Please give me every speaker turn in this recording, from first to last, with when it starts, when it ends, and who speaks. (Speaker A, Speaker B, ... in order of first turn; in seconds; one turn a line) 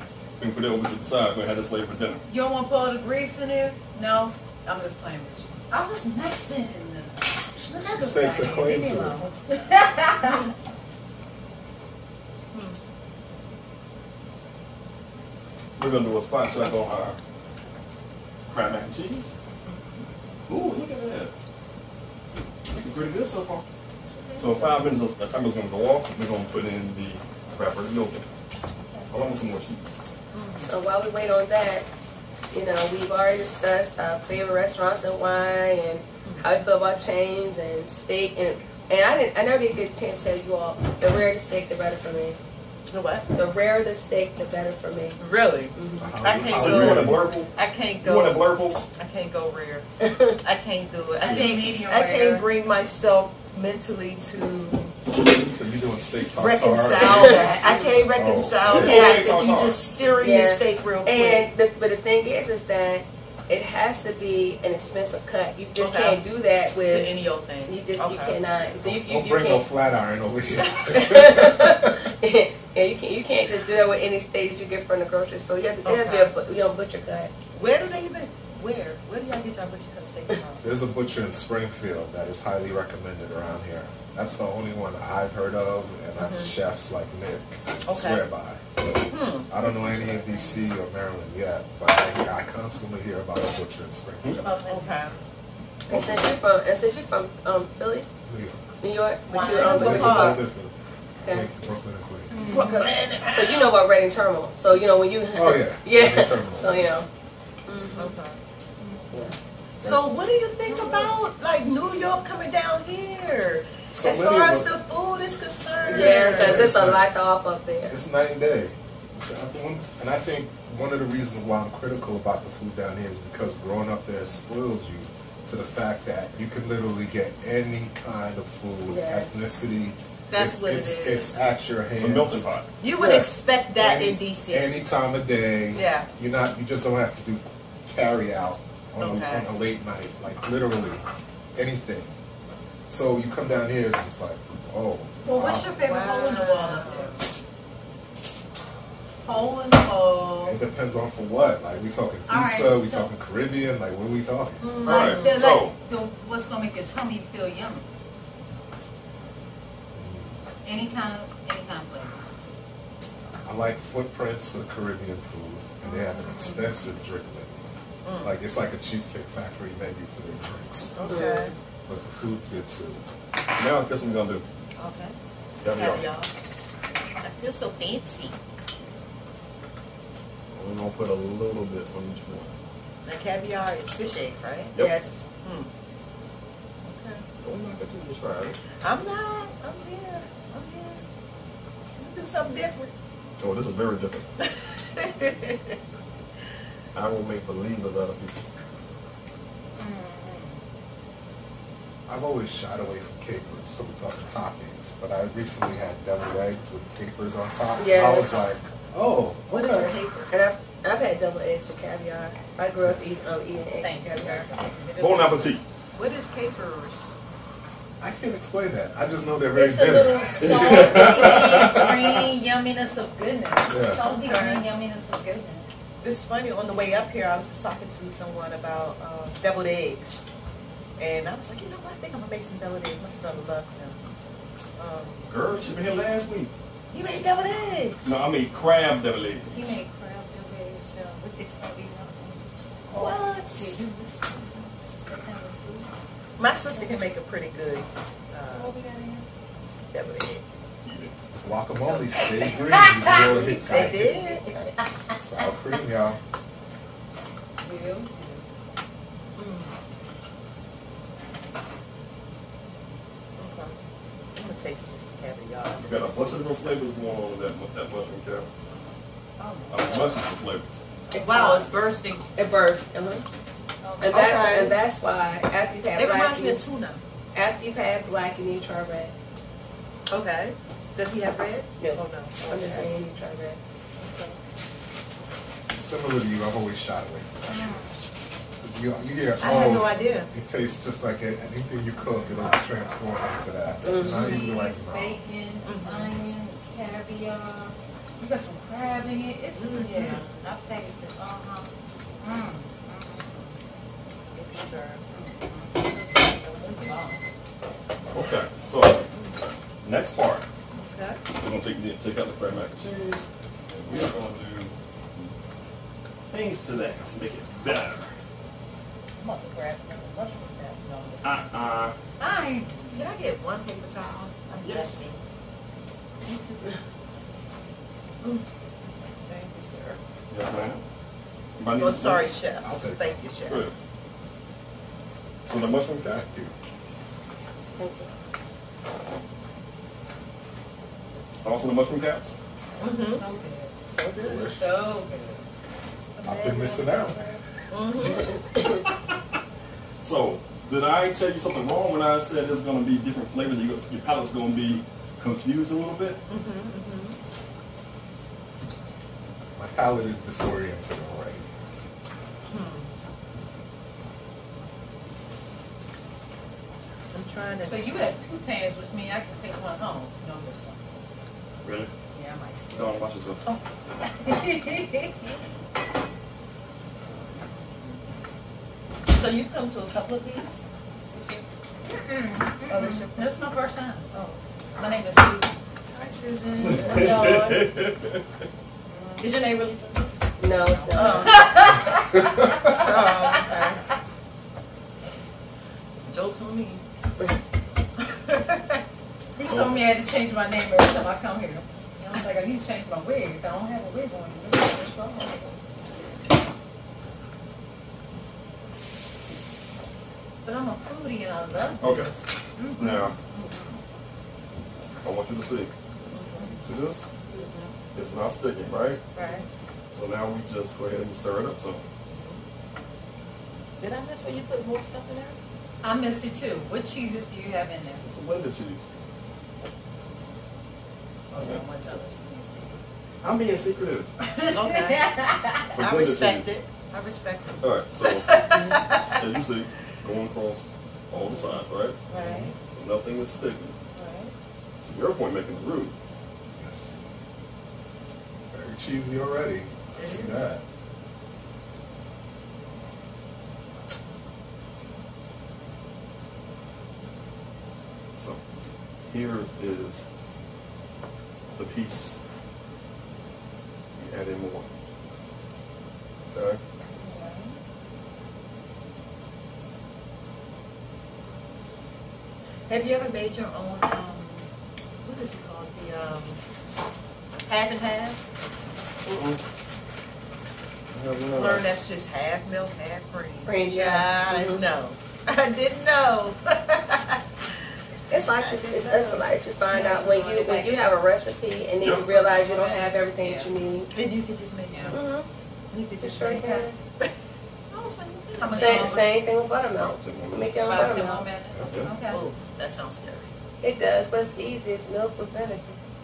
Speaker A: 0.4-2.2
Speaker B: 2.3-10.5
Speaker C: 7.6-9.2
Speaker D: 12.5-12.8
Speaker A: 15.8-17.2
Speaker A: 18.5-19.4
Speaker A: 20.5-21.3
Speaker A: 22.7-23.7
Speaker A: 24.4-28.3
Speaker D: 24.4-24.7
Speaker A: 29.1-30.0
Speaker D: 30.3-30.7
Speaker E: 30.6-31.9
Speaker E: 32.5-42.4
Speaker D: 42.9-43.3
Speaker E: 43.3-45.2
Speaker D: 45.2-49.9
Speaker E: 45.8-46.1
Speaker C: 46.0-47.3
Speaker A: 46.5-47.5
Speaker A: 48.0-48.9
Speaker E: 50.0-50.4
Speaker D: 50.4-55.0
Speaker B: 51.2-52.5
Speaker C: 55.2-59.0
Speaker D: 56.4-61.5
Speaker A: 58.2-60.1
Speaker E: 58.8-59.6
Speaker E: 60.2-67.1
Speaker D: 65.8-66.3
Speaker D: 66.8-68.4
Speaker E: 67.7-69.7
Speaker C: 68.8-72.0
Speaker E: 70.9-77.3
Speaker D: 75.8-76.3
Speaker D: 77.5-80.7
Speaker C: 80.6-94.5
Speaker D: 86.2-86.5
Speaker D: 87.9-88.2
Speaker D: 89.1-89.7
Speaker B: 89.8-90.7
Speaker B: 94.3-95.0
Speaker D: 94.7-95.2
Speaker E: 95.9-98.1
Speaker A: 95.9-96.2
Speaker C: 98.3-98.6
Speaker E: 98.8-100.5
Speaker D: 99.3-100.4
Speaker C: 99.5-102.5
Speaker E: 101.2-101.5
Speaker B: 102.3-102.8
Speaker D: 102.4-103.7
Speaker E: 102.5-107.1
Speaker C: 105.3-107.0
Speaker E: 107.7-108.2
Speaker D: 108.0-109.0
Speaker E: 109.1-109.4
Speaker D: 109.8-116.8
Speaker B: 110.8-111.1
Speaker C: 113.9-114.8
Speaker C: 115.8-117.1
Speaker E: 115.9-118.0
Speaker C: 117.9-132.5
Speaker E: 128.9-129.4
Speaker D: 130.3-131.3
Speaker A: 131.9-132.7
Speaker D: 132.8-134.8
Speaker C: 133.0-141.0
Speaker D: 135.7-136.1
Speaker D: 139.0-139.5
Speaker C: 141.6-142.1
Speaker C: 142.9-145.7
Speaker B: 145.2-147.2
Speaker D: 145.8-147.3
Speaker B: 149.2-150.6
Speaker C: 150.4-154.6
Speaker B: 152.3-153.1
Speaker D: 154.6-155.4
Speaker A: 154.8-155.8
Speaker B: 154.8-157.8
Speaker C: 159.9-160.4
Speaker B: 160.6-162.2
Speaker C: 163.4-167.6
Speaker D: 165.8-166.6
Speaker D: 168.0-168.3
Speaker C: 168.2-171.0
Speaker D: 170.9-171.6
Speaker E: 171.1-171.5
Speaker C: 171.9-173.0
Speaker A: 173.6-174.4
Speaker D: 174.8-176.3
Speaker A: 175.6-176.1
Speaker D: 177.2-178.4
Speaker A: 180.5-182.5
Speaker D: 183.1-184.7
Speaker E: 184.8-185.3
Speaker D: 185.4-185.7
Speaker D: 186.8-187.2
Speaker A: 187.4-188.6
Speaker D: 188.8-191.0
Speaker D: 192.0-192.9
Speaker A: 193.4-194.3
Speaker D: 194.4-195.8
Speaker A: 196.9-198.4
Speaker B: 199.8-200.6
Speaker C: 202.1-209.9
Speaker E: 207.8-208.5
Speaker D: 209.5-210.3
Speaker E: 210.3-214.1
Speaker B: 213.8-215.6
Speaker D: 214.2-214.4
Speaker A: 215.0-215.6
Speaker D: 215.9-217.2
Speaker C: 218.0-221.8
Speaker E: 219.6-221.3
Speaker B: 219.7-225.8
Speaker A: 220.4-222.2
Speaker C: 223.7-224.1
Speaker D: 223.8-224.7
Speaker D: 226.0-230.3
Speaker D: 231.0-234.0
Speaker D: 234.8-235.3
Speaker A: 235.3-236.5
Speaker D: 236.9-238.1
Speaker A: 238.0-239.8
Speaker B: 239.5-245.9
Speaker D: 242.9-243.9
Speaker D: 246.4-248.7
Speaker B: 246.7-247.0
Speaker B: 248.4-249.3
Speaker D: 249.9-250.4
Speaker A: 250.8-251.1
Speaker C: 251.4-254.2
Speaker B: 251.8-255.6
Speaker E: 253.1-254.1
Speaker D: 253.6-254.7
Speaker C: 254.8-256.2
Speaker B: 257.6-258.4
Speaker D: 259.4-259.8
Speaker D: 263.4-263.8
Speaker D: 264.4-266.4
Speaker A: 265.8-268.5
Speaker D: 268.7-269.0
Speaker B: 269.4-270.1
Speaker A: 269.7-270.8
Speaker D: 271.1-272.3
Speaker E: 271.1-271.7
Speaker E: 272.4-273.2
Speaker B: 273.8-274.6
Speaker E: 274.0-276.6
Speaker D: 274.1-274.8
Speaker D: 276.0-277.0
Speaker E: 277.3-279.1
Speaker D: 280.1-282.9
Speaker E: 281.8-283.6
Speaker C: 285.7-287.8
Speaker B: 287.5-288.0
Speaker C: 288.6-295.2
Speaker D: 289.4-290.3
Speaker D: 292.0-292.4
Speaker E: 293.8-294.4
Speaker B: 293.9-303.3
Speaker D: 295.6-296.2
Speaker D: 299.6-300.4
Speaker D: 303.3-303.5
Speaker D: 304.3-305.2
Speaker B: 305.1-307.2
Speaker D: 306.7-306.9
Speaker A: 308.1-309.1
Speaker A: 309.8-310.5
Speaker D: 310.7-311.2
Speaker A: 311.3-315.4
Speaker A: 316.3-318.1
Speaker D: 319.2-321.4
Speaker A: 321.2-322.0
Speaker B: 322.2-323.0
Speaker D: 322.9-325.2
Speaker A: 324.6-325.1
Speaker D: 326.2-326.8
Speaker D: 329.2-330.0
Speaker A: 330.3-330.8
Speaker A: 331.6-332.3
Speaker D: 331.8-333.7
Speaker C: 332.6-333.2
Speaker A: 333.5-333.7
Speaker A: 335.4-336.3
Speaker C: 336.1-336.5
Speaker E: 337.8-338.1
Speaker A: 341.4-342.4
Speaker D: 342.8-343.2
Speaker B: 342.8-343.7
Speaker D: 343.9-344.6
Speaker C: 344.2-344.7
Speaker B: 344.5-345.4
Speaker C: 346.2-347.4
Speaker D: 346.2-348.4
Speaker B: 346.8-347.1
Speaker A: 348.6-349.4
Speaker A: 350.0-356.2
Speaker D: 356.3-357.2
Speaker C: 359.6-361.5
Speaker D: 362.5-362.9
Speaker D: 367.1-368.1
Speaker B: 367.6-370.8
Speaker A: 371.6-371.9
Speaker B: 372.1-373.0
Speaker A: 372.7-373.4
Speaker B: 374.0-375.4
Speaker D: 377.3-378.0
Speaker D: 379.1-381.4
Speaker B: 381.9-384.1
Speaker D: 382.7-383.3
Speaker D: 384.1-384.4
Speaker B: 384.8-385.6
Speaker D: 385.9-387.7
Speaker A: 386.6-388.2
Speaker B: 388.9-389.3
Speaker D: 389.2-390.1
Speaker E: 390.4-391.3
Speaker D: 390.7-391.7
Speaker B: 390.9-393.8
Speaker C: 392.2-392.5
Speaker D: 392.7-393.8
Speaker D: 396.1-396.8
Speaker D: 398.0-398.8
Speaker B: 399.4-405.6
Speaker A: 399.5-399.8
Speaker B: 410.4-412.2
Speaker A: 411.8-412.1
Speaker D: 412.6-413.5
Speaker A: 412.8-413.1
Speaker B: 413.4-413.6
Speaker A: 415.0-415.7
Speaker D: 416.1-416.6
Speaker B: 416.3-416.6
Speaker A: 416.6-417.1
Speaker D: 417.3-417.7
Speaker A: 417.9-419.0
Speaker D: 419.1-419.5
Speaker A: 419.9-421.8
Speaker D: 422.1-422.4
Speaker D: 423.8-425.4
Speaker B: 425.8-428.1
Speaker A: 428.0-428.9
Speaker B: 431.3-432.8
Speaker A: 431.3-432.0
Speaker A: 433.2-434.1
Speaker B: 434.2-435.7
Speaker D: 434.5-435.1
Speaker A: 435.7-436.5
Speaker D: 435.8-439.2
Speaker A: 437.6-438.4
Speaker A: 439.1-443.8
Speaker D: 441.1-442.6
Speaker C: 442.2-442.5
Speaker D: 443.9-444.3
Speaker A: 444.8-445.9
Speaker C: 446.6-447.1
Speaker C: 448.5-450.6
Speaker D: 450.0-450.4
Speaker A: 459.1-460.1
Speaker A: 461.6-462.2
Speaker A: 464.0-464.7
Speaker A: 466.3-466.6
Speaker D: 466.9-467.6
Speaker D: 472.7-474.5
Speaker D: 475.0-476.4
Speaker D: 477.5-478.2
Speaker A: 479.1-479.4
Speaker A: 480.9-481.6
Speaker D: 481.3-487.2
Speaker E: 483.5-484.6
Speaker E: 488.1-493.9
Speaker D: 488.1-489.2
Speaker B: 489.7-490.9
Speaker B: 492.0-493.5
Speaker D: 493.9-495.0
Speaker B: 494.7-495.0
Speaker E: 494.9-495.3
Speaker D: 495.7-497.1
Speaker E: 496.0-496.8
Speaker B: 496.2-496.7
Speaker D: 497.7-499.0
Speaker B: 498.3-499.1
Speaker E: 498.5-501.3
Speaker A: 499.7-501.0
Speaker B: 500.6-502.3
Speaker D: 502.1-503.3
Speaker E: 503.6-505.8